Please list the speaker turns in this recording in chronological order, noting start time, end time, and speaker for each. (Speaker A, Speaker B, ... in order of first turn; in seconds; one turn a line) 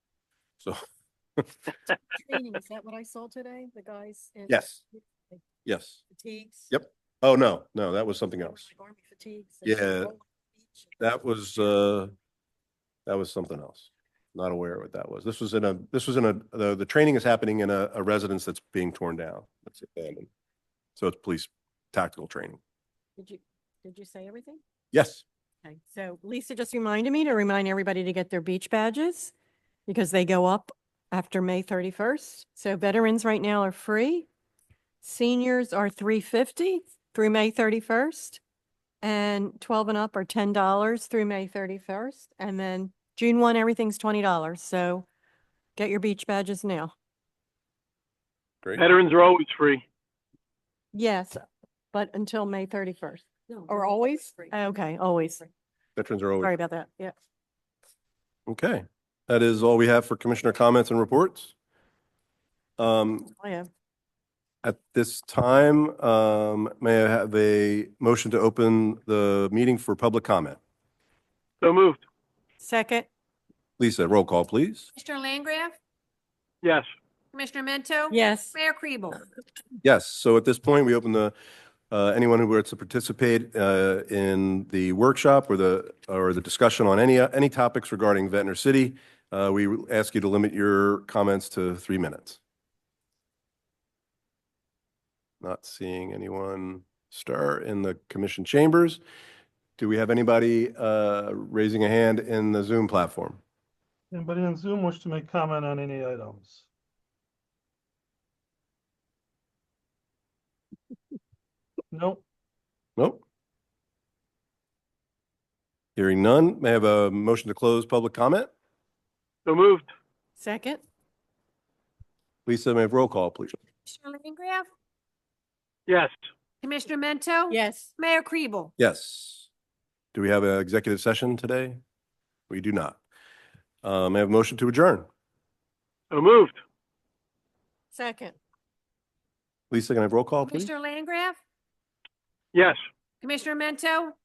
Speaker A: 3.1-3.5
Speaker B: 4.5-4.8
Speaker B: 5.6-6.0
Speaker B: 6.7-8.7
Speaker B: 9.6-10.1
Speaker B: 11.0-12.1
Speaker B: 13.1-20.3
Speaker B: 20.9-22.6
Speaker A: 23.2-24.6
Speaker B: 24.9-25.2
Speaker A: 25.6-29.3
Speaker A: 29.9-34.3
Speaker A: 35.0-38.4
Speaker A: 39.0-45.0
Speaker A: 45.8-46.9
Speaker C: 48.8-49.8
Speaker A: 50.9-55.5
Speaker B: 56.0-56.5
Speaker A: 56.4-57.1
Speaker B: 58.5-61.5
Speaker B: 62.8-63.3
Speaker A: 63.4-63.7
Speaker B: 64.6-70.6
Speaker C: 71.6-72.0
Speaker A: 72.6-73.1
Speaker B: 73.8-74.9
Speaker D: 74.9-75.8
Speaker D: 77.3-79.2
Speaker A: 78.1-78.5
Speaker B: 79.8-81.3
Speaker B: 81.9-92.4
Speaker B: 95.4-99.0
Speaker B: 99.8-103.4
Speaker E: 104.1-106.7
Speaker E: 111.9-112.2
Speaker B: 113.0-113.2
Speaker B: 116.0-118.5
Speaker C: 119.5-119.9
Speaker A: 120.4-120.8
Speaker B: 122.5-123.6
Speaker D: 123.9-124.7
Speaker C: 125.9-126.1
Speaker D: 126.6-128.7
Speaker A: 127.5-127.9
Speaker B: 128.8-129.5
Speaker B: 130.1-131.8
Speaker B: 132.5-133.0
Speaker B: 133.8-135.1
Speaker C: 136.1-136.6
Speaker A: 137.9-138.4
Speaker B: 139.7-140.7
Speaker D: 140.4-141.4
Speaker C: 142.5-142.8
Speaker D: 143.2-144.1